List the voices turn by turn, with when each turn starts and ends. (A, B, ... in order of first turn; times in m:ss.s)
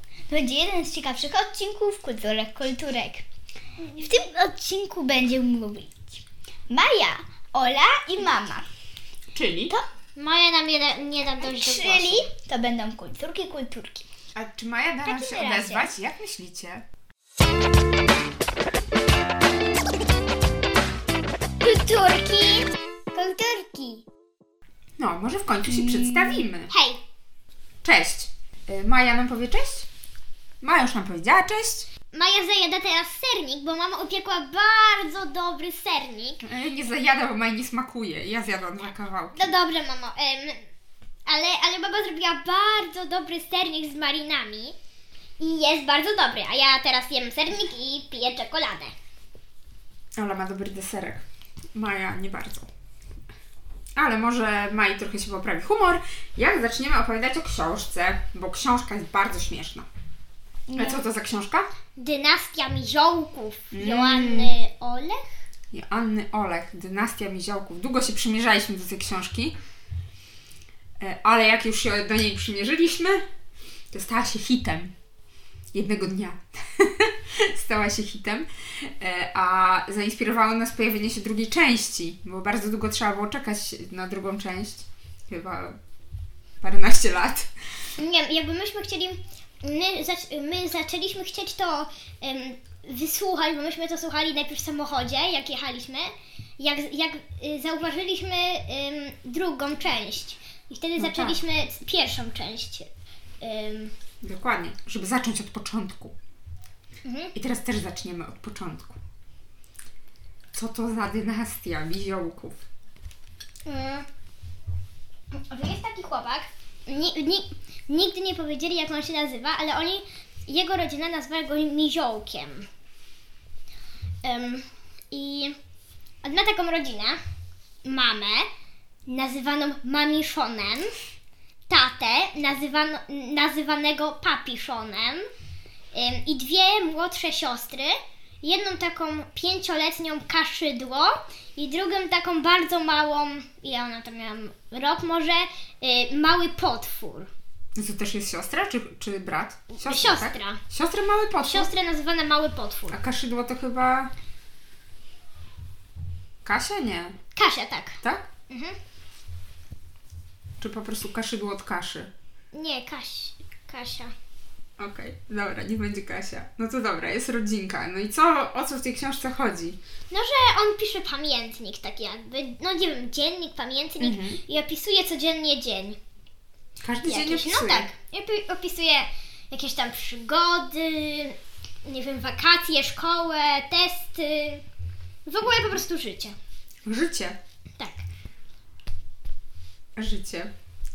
0:00.3-0:03.2 A
0:03.8-0:04.2 B
0:04.0-0:08.7 A
0:09.3-0:09.7 C
0:10.2-0:12.3 B
0:11.4-0:14.0 A
0:14.3-0:16.8 C
0:15.0-0:15.9 A
0:21.6-0:24.0 B
0:25.0-0:26.7 C
0:25.7-0:26.4 A
0:26.7-0:27.0 B
0:27.8-0:29.9 C
0:30.6-0:31.9 C
0:32.1-0:36.4 B
0:36.4-0:39.5 C
0:39.3-0:40.6 B
0:41.2-0:44.7 B
0:45.4-0:48.9 B
0:50.2-0:52.7 C
0:54.0-0:59.9 C
1:00.7-1:01.0 A
1:00.8-1:01.7 C
1:02.0-1:05.2 B
1:03.7-1:04.5 C
1:05.7-1:09.5 C
1:11.0-1:13.2 C
1:13.9-1:14.9 C
1:15.7-1:25.8 C
1:26.6-1:27.5 C
1:28.0-1:42.9 B
1:41.0-1:41.4 C
1:43.4-1:43.9 B
1:44.2-1:46.1 C
1:47.0-1:47.3 B
1:47.3-1:49.0 C
1:50.5-1:52.6 C
1:53.6-1:54.0 B
1:55.3-2:02.6 B
2:04.2-2:05.6 B
2:06.2-2:07.2 B
2:07.8-2:08.5 B
2:09.0-2:10.9 B
2:11.7-2:15.3 B
2:15.9-2:27.3 B
2:27.8-2:31.7 C
2:29.8-2:30.6 B
2:31.4-2:33.0 B
2:32.9-2:34.1 C
2:36.4-2:37.2 C
2:37.4-2:38.0 B
2:38.0-2:38.3 C
2:38.5-2:38.8 B
2:40.6-2:42.1 C
2:42.5-2:44.1 B
2:44.8-2:49.8 C
2:50.1-2:56.0 B
2:54.0-2:54.4 C
2:56.8-2:57.9 C
2:57.0-3:04.6 B
3:05.2-3:06.4 B
3:06.8-3:07.4 C
3:07.8-3:08.0 B
3:10.0-3:10.5 C